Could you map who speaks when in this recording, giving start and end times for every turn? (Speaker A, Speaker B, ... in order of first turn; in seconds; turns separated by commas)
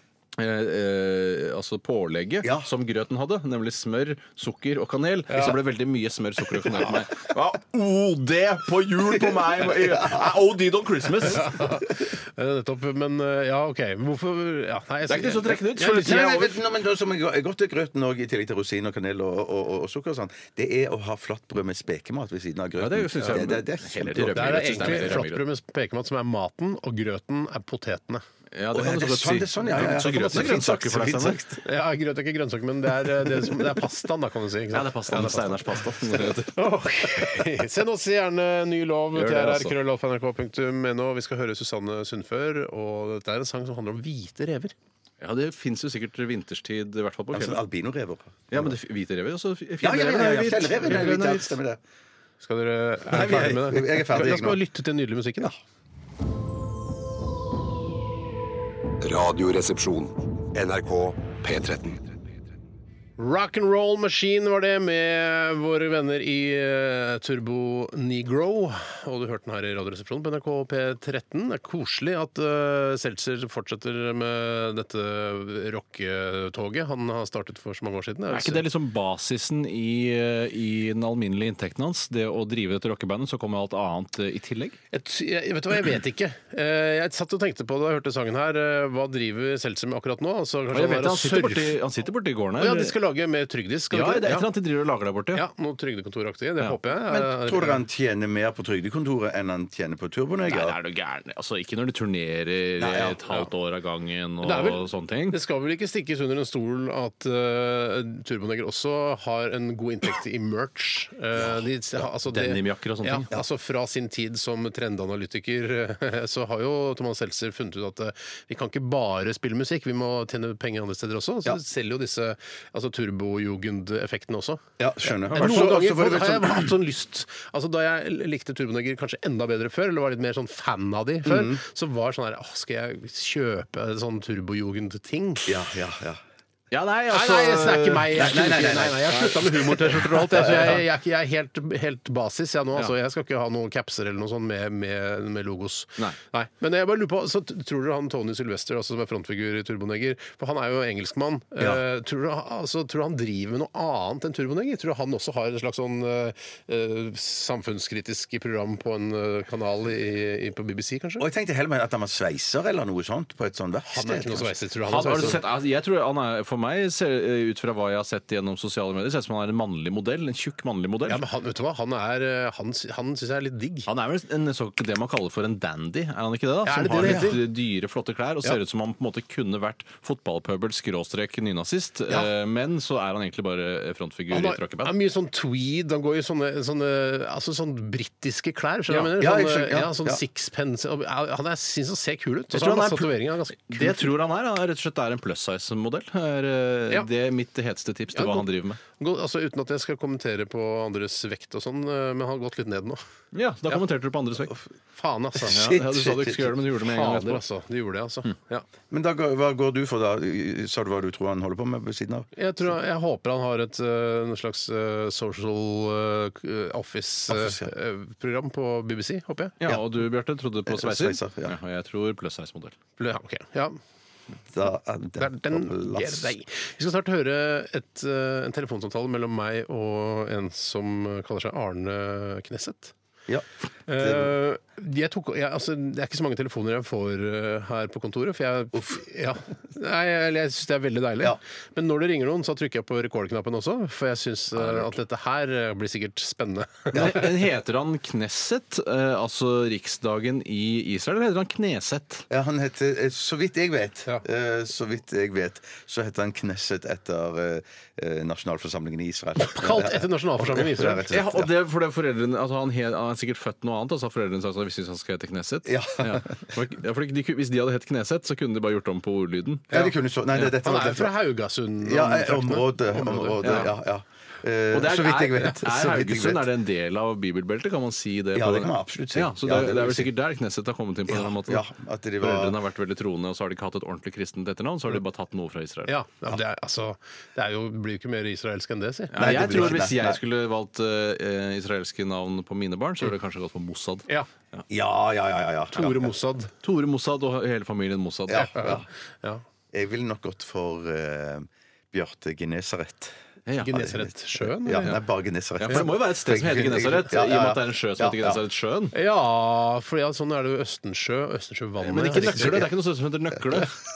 Speaker A: 0.4-11.7, Speaker B: 9.2-10.4, Speaker C: 11.4-16.4, Speaker A: 15.1-16.6, Speaker B: 15.8-25.2, Speaker A: 22.8-25.4, Speaker C: 24.3-28.2, Speaker A: 28.5-31.4, Speaker B: 28.7-31.6, Speaker C: 31.6-35.8, Speaker A: 34.7-36.6, Speaker C: 36.5-44.7, Speaker A: 39.1-39.8, Speaker A: 45.2-47.6, Speaker B: 47.3-48.7, Speaker A: 48.5-51.6, Speaker B: 49.8-51.8, Speaker C: 52.4-55.5, Speaker B: 53.1-54.6, Speaker D: 59.0-62.0, Speaker C: 63.2-78.6, Speaker A: 78.3-84.8, Speaker C: 84.9-91.8, Speaker A: 90.7-93.0, Speaker C: 92.6-94.5, Speaker A: 93.9-95.5, Speaker C: 95.3-97.8, Speaker B: 97.1-100.8, Speaker A: 100.5-105.4, Speaker B: 102.8-103.4, Speaker C: 104.4-135.5, Speaker A: 112.2-113.3, Speaker B: 124.8-126.7, Speaker B: 131.2-131.6, Speaker B: 135.5-136.2, Speaker A: 136.7-140.8, Speaker C: 137.1-161.2, Speaker B: 138.2-140.8, Speaker B: 161.2-165.3, Speaker C: 163.9-165.4, Speaker A: 164.9-171.2, Speaker C: 171.1-173.9, Speaker A: 173.9-185.0, Speaker C: 176.7-177.4, Speaker B: 177.0-177.4, Speaker C: 184.3-194.1, Speaker B: 188.9-190.2, Speaker A: 192.5-198.8, Speaker C: 198.1-203.0, Speaker A: 203.3-204.6, Speaker C: 205.0-205.6, Speaker B: 205.4-206.4, Speaker A: 205.5-207.4, Speaker C: 206.8-208.7, Speaker B: 208.9-212.3, Speaker C: 212.4-219.6, Speaker B: 217.3-217.7, Speaker A: 219.6-222.8, Speaker B: 220.7-221.6, Speaker C: 223.0-223.8, Speaker B: 224.5-226.3, Speaker C: 225.2-232.9, Speaker B: 233.3-234.3, Speaker C: 233.9-247.3, Speaker B: 238.7-239.0, Speaker A: 246.9-252.2, Speaker B: 252.3-261.5, Speaker C: 259.4-261.1, Speaker A: 261.1-269.7, Speaker B: 265.6-266.3, Speaker B: 269.7-271.1, Speaker C: 270.5-273.7, Speaker B: 271.8-276.5, Speaker A: 273.4-273.7, Speaker A: 274.7-281.7, Speaker B: 278.3-280.1, Speaker B: 281.1-282.6, Speaker A: 282.2-285.9, Speaker C: 285.9-289.7, Speaker A: 289.1-294.6, Speaker B: 289.2-290.2, Speaker B: 294.7-296.1, Speaker C: 295.7-296.5, Speaker A: 296.6-298.8, Speaker B: 298.3-298.9, Speaker C: 298.4-299.4, Speaker B: 299.7-303.1, Speaker A: 303.5-303.9, Speaker C: 303.6-304.9, Speaker B: 303.8-308.4, Speaker A: 305.6-308.9, Speaker C: 308.9-312.6, Speaker A: 311.8-313.8, Speaker B: 312.1-312.7